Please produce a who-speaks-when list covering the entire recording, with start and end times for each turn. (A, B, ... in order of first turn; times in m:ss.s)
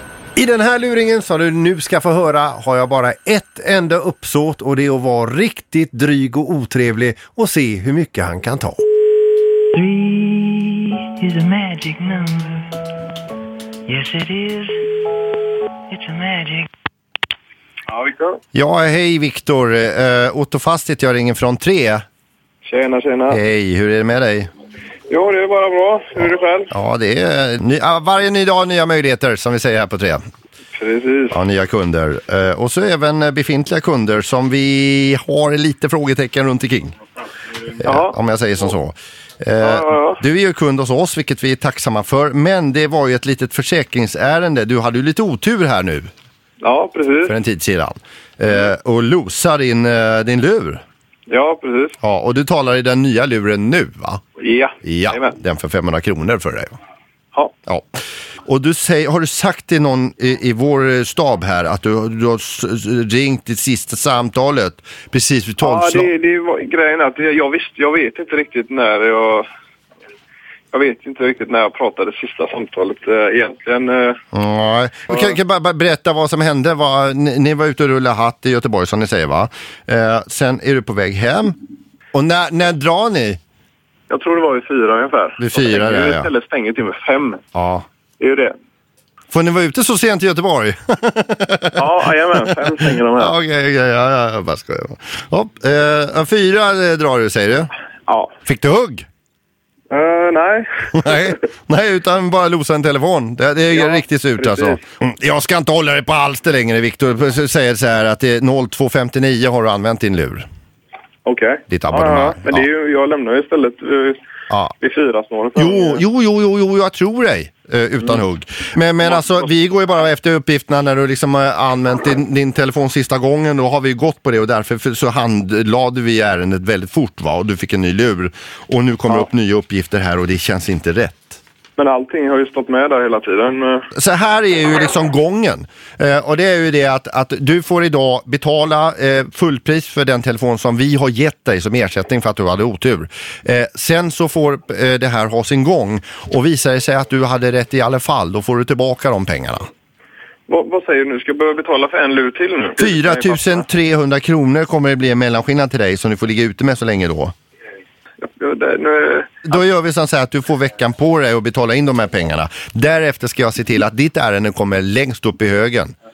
0:00.4-0:08.8 A
0:09.8-0:12.7 B
0:13.9-0:14.8 B
0:15.9-0:16.7 B
0:17.9-0:18.4 C
0:18.5-0:22.0 A
0:22.6-0:23.4 C
0:23.3-0:24.5 A
0:25.1-0:26.7 C
0:26.7-0:30.2 A
0:30.7-0:31.4 C
0:31.3-0:37.0 A
0:37.8-0:46.1 A
0:37.8-0:38.2 C
0:39.6-0:40.2 C
0:46.6-0:47.3 C
0:47.3-0:50.8 A
0:51.3-0:52.0 C
0:52.0-0:54.2 A
0:54.4-0:55.4 C
0:54.8-0:56.8 A
0:57.7-1:06.1 A
1:05.6-1:09.5 C
1:10.7-1:14.2 C
1:14.3-1:21.6 A
1:22.1-1:23.4 A
1:24.1-1:27.4 C
1:25.4-1:26.3 A
1:27.5-1:27.8 A
1:28.2-1:28.6 C
1:29.3-1:32.1 A
1:31.8-1:33.4 C
1:33.2-1:37.7 A
1:38.4-1:39.1 A
1:39.9-1:41.1 C
1:41.0-1:50.5 A
1:43.7-1:44.8 C
1:51.2-1:54.2 C
1:51.7-1:52.7 A
1:54.8-1:56.0 C
1:55.6-2:11.4 A
2:11.8-2:13.9 C
2:14.0-2:29.7 A
2:30.5-2:33.6 C
2:32.8-2:37.3 A
2:38.2-2:39.3 C
2:39.4-2:45.9 A